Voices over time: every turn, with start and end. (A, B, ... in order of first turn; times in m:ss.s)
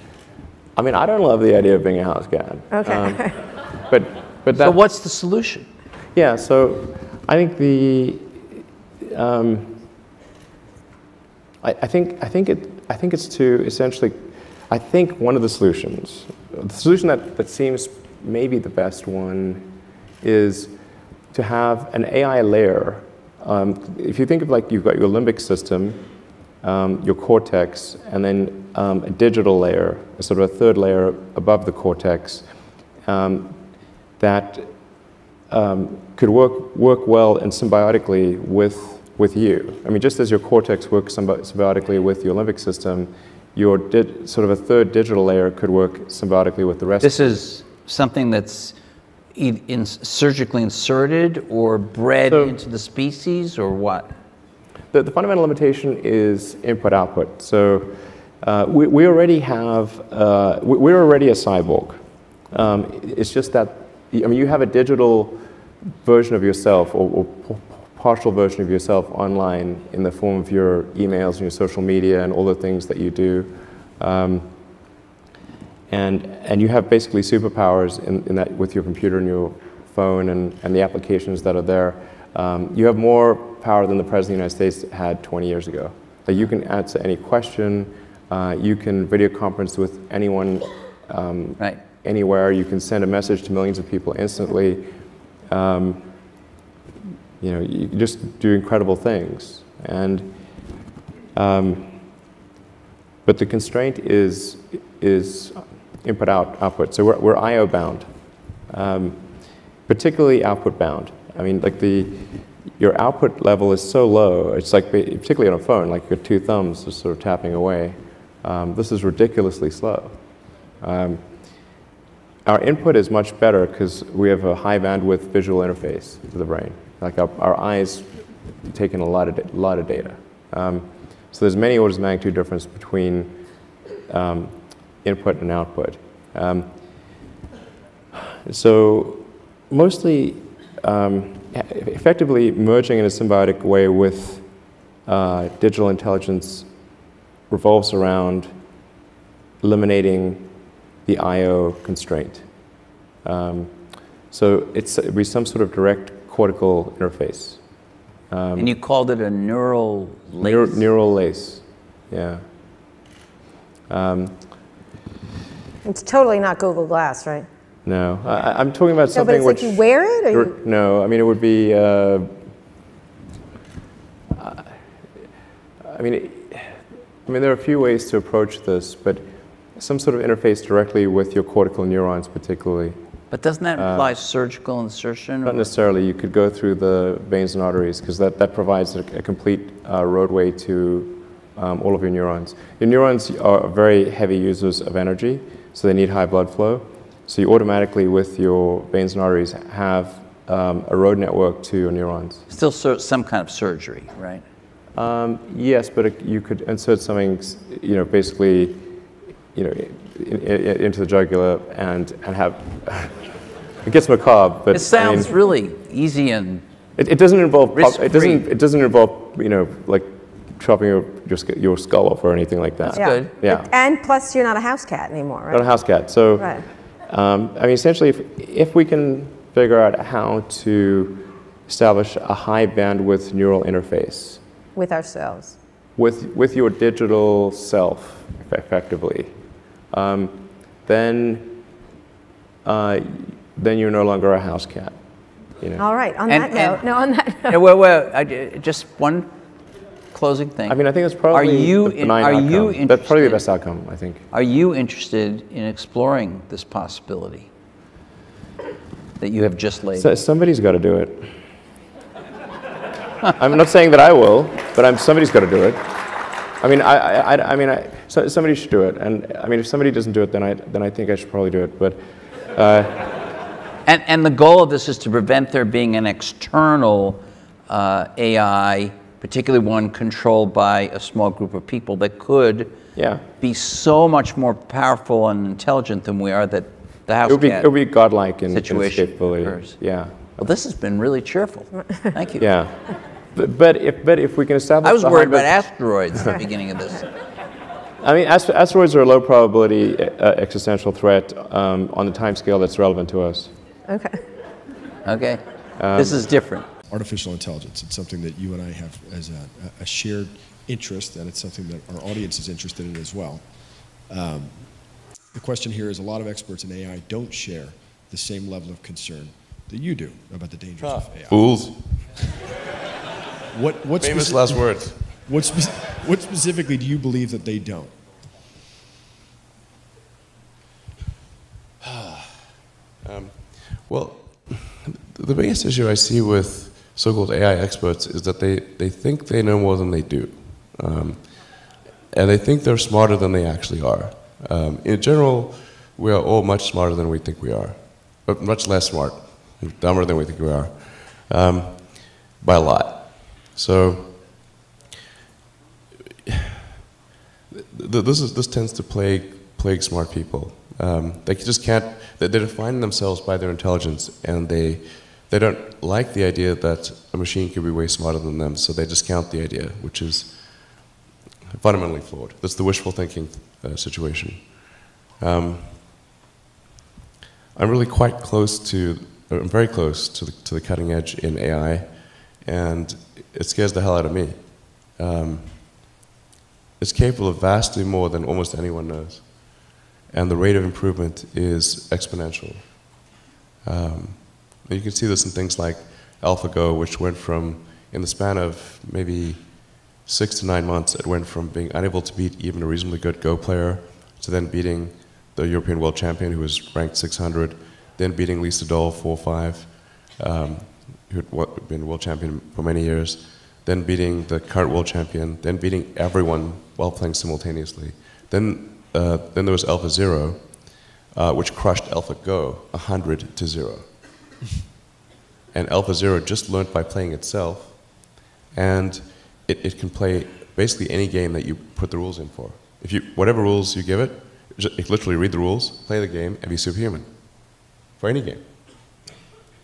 0:00.7-0:04.8 A
0:02.7-0:03.4 B
0:04.5-0:05.7 C
0:06.1-0:09.8 A
0:11.6-0:47.4 A
0:47.0-0:48.8 C
0:49.3-0:54.1 C
0:52.3-0:52.6 A
0:54.9-1:05.4 A
1:06.0-1:14.8 A
1:15.9-1:36.4 A
1:37.4-1:42.2 A
1:43.2-2:01.9 A
2:02.4-2:17.3 A
2:18.4-2:26.9 A
2:27.5-2:28.6 A
2:29.6-2:38.7 A
2:38.6-2:40.8 C
2:40.4-2:42.4 A
2:43.9-2:44.6 A
2:45.8-2:47.5 B
2:47.8-2:52.4 A
2:49.1-2:50.5 B
2:54.3-2:54.9 A
2:55.8-3:03.0 A
3:03.3-3:05.7 C
3:03.8-3:04.1 A
3:05.4-3:22.4 A
3:22.5-3:24.4 C
3:24.9-3:29.0 A
3:29.5-3:35.4 A
3:34.7-3:36.6 C
3:37.0-3:43.7 A
3:37.7-3:38.4 C
3:42.8-3:43.3 C
3:42.9-3:46.6 B
3:45.5-3:54.4 A
3:54.7-3:55.6 B
3:56.0-3:59.3 A
3:59.9-4:01.7 A
4:02.6-4:05.8 A
4:05.8-4:07.6 B
4:06.3-4:06.8 C
4:07.4-4:09.3 C
4:10.1-4:10.8 C
4:10.7-4:14.2 A
4:11.3-4:13.5 C
4:14.3-4:17.5 C
4:19.2-4:20.1 C
4:20.0-4:21.4 A
4:23.3-4:26.0 A
4:26.6-4:32.0 A
4:32.5-4:33.2 A
4:33.8-4:42.8 C
4:42.9-4:43.2 A
4:43.4-4:47.7 C
4:47.2-4:50.4 A
4:48.5-4:52.5 C
4:52.4-4:56.0 A
4:54.8-4:57.1 C
4:58.0-5:03.5 A
5:03.9-5:04.2 B
5:05.0-5:06.7 C
5:05.8-5:06.2 A
5:06.9-5:22.1 D
5:20.8-5:22.0 E
5:23.5-5:28.0 D
5:24.0-5:25.1 E
5:33.0-5:54.2 E
5:57.7-6:10.9 E
6:11.6-6:15.9 E
6:17.5-6:25.7 E
6:26.8-6:33.0 E
6:33.6-7:04.0 E
7:05.5-7:18.9 E